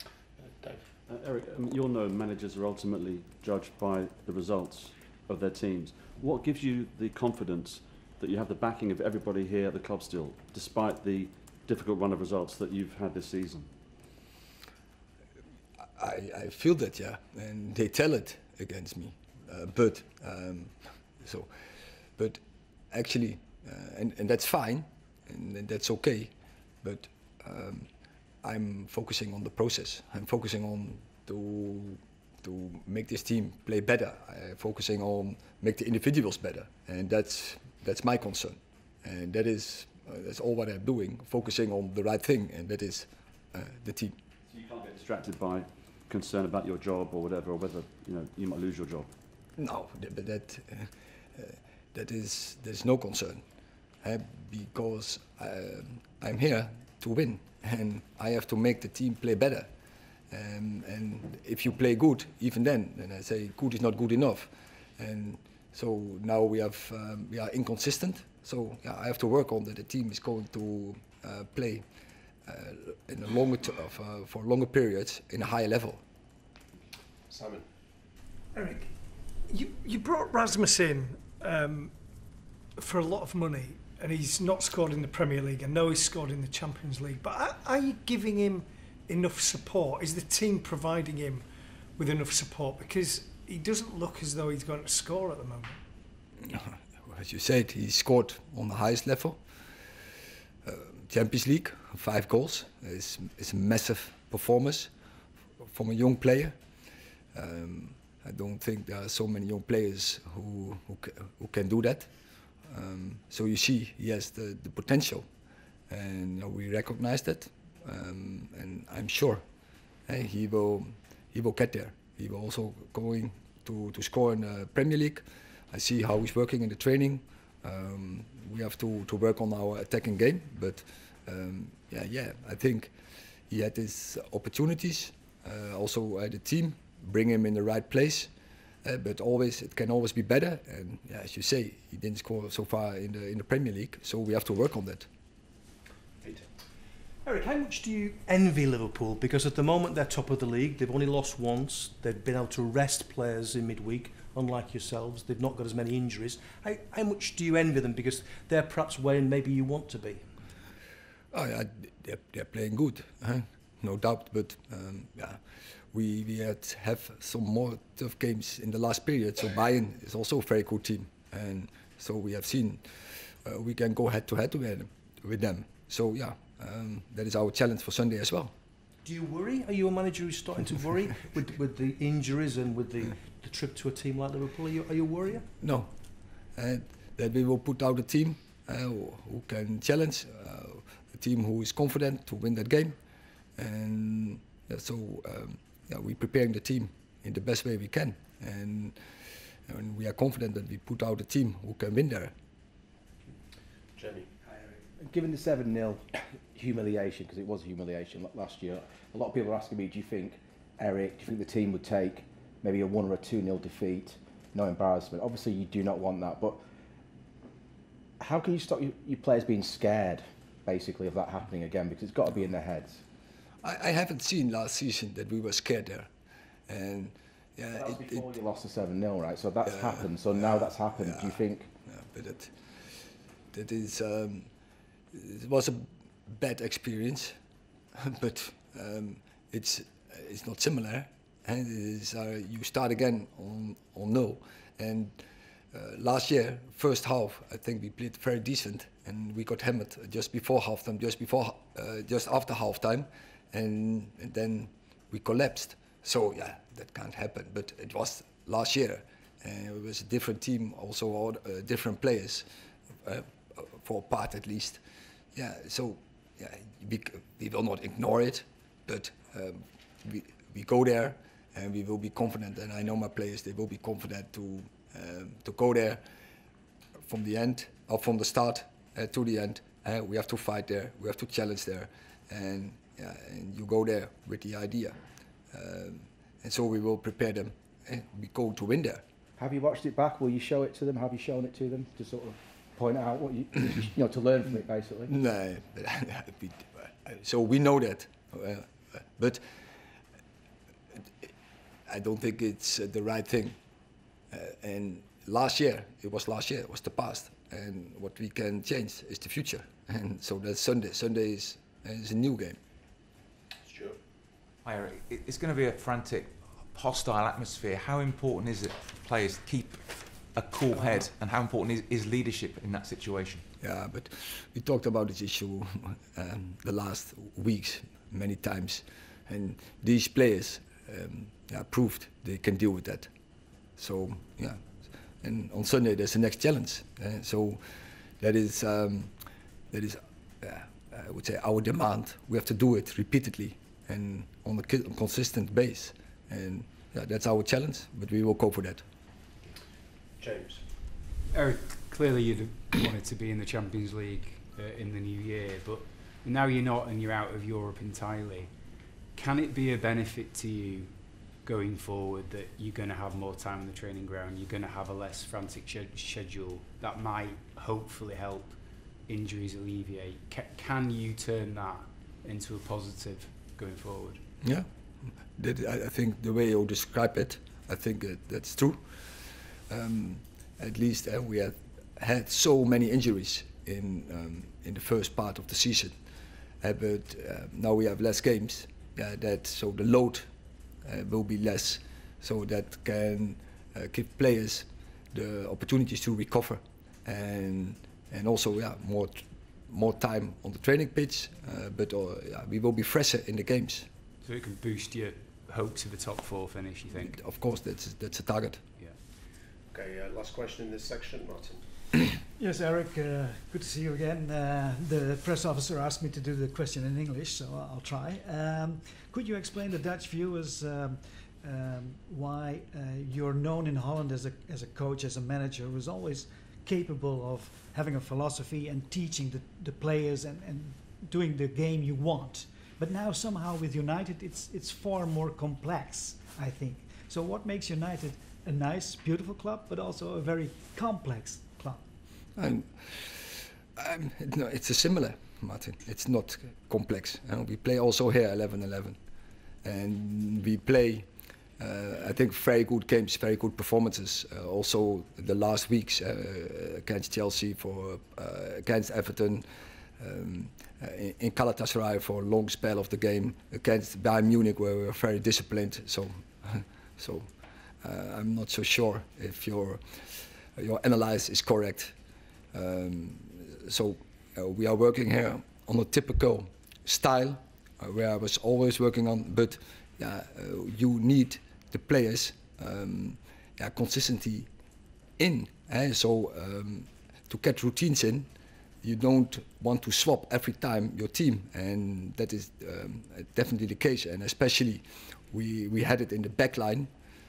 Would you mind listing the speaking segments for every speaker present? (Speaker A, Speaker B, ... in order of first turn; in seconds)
Speaker A: 0.4-0.8, 77.3-77.7, 203.9-204.3, 313.6-314.0, 350.2-350.6, 409.7-411.6
Speaker B: 1.1-13.7, 44.5-49.1
Speaker C: 16.0-21.5, 22.9-26.3, 26.8-27.9, 28.4-44.1, 49.6-53.4, 54.0-59.7, 60.3-71.8, 72.5-76.0, 96.4-99.4, 100.6-104.9, 105.6-106.5, 107.3-112.1, 112.7-115.2, 115.9-119.4, 120.1-132.9, 133.5-138.3, 138.8-145.1, 161.3-165.4, 165.9-172.8, 173.4-178.5, 185.6-185.9, 186.6-193.0, 193.6-199.0, 199.7-202.3, 223.6-226.1, 226.7-228.2, 229.6-232.5, 233.5-234.5, 235.1-237.3, 238.0-245.2, 245.7-262.4, 263.0-264.8, 265.3-276.0, 277.1-285.0, 285.5-289.0, 295.1-299.4, 301.9-303.6, 304.3-312.6, 323.6-333.1, 333.8-334.6, 335.2-337.6, 338.2-339.1, 339.7-348.8, 374.4-378.8, 379.7-385.9, 386.6-390.3, 390.8-403.9, 407.0-408.6, 442.4-449.0, 449.6-451.1, 451.6-459.4, 460.0-467.3, 467.8-469.8, 470.6-471.9, 472.5-484.5, 485.2-488.3, 488.8-496.9
Speaker D: 78.5-78.9, 79.5-81.9, 82.8-91.4, 92.0-95.8
Speaker E: 147.2-160.2, 179.0-185.4
Speaker F: 205.0-216.6, 218.2-223.0, 227.7-231.7, 289.4-295.1
Speaker G: 314.6-319.8, 320.3-323.4
Speaker H: 351.3-358.5, 359.1-374.2, 404.2-407.2
Speaker I: 412.4-441.8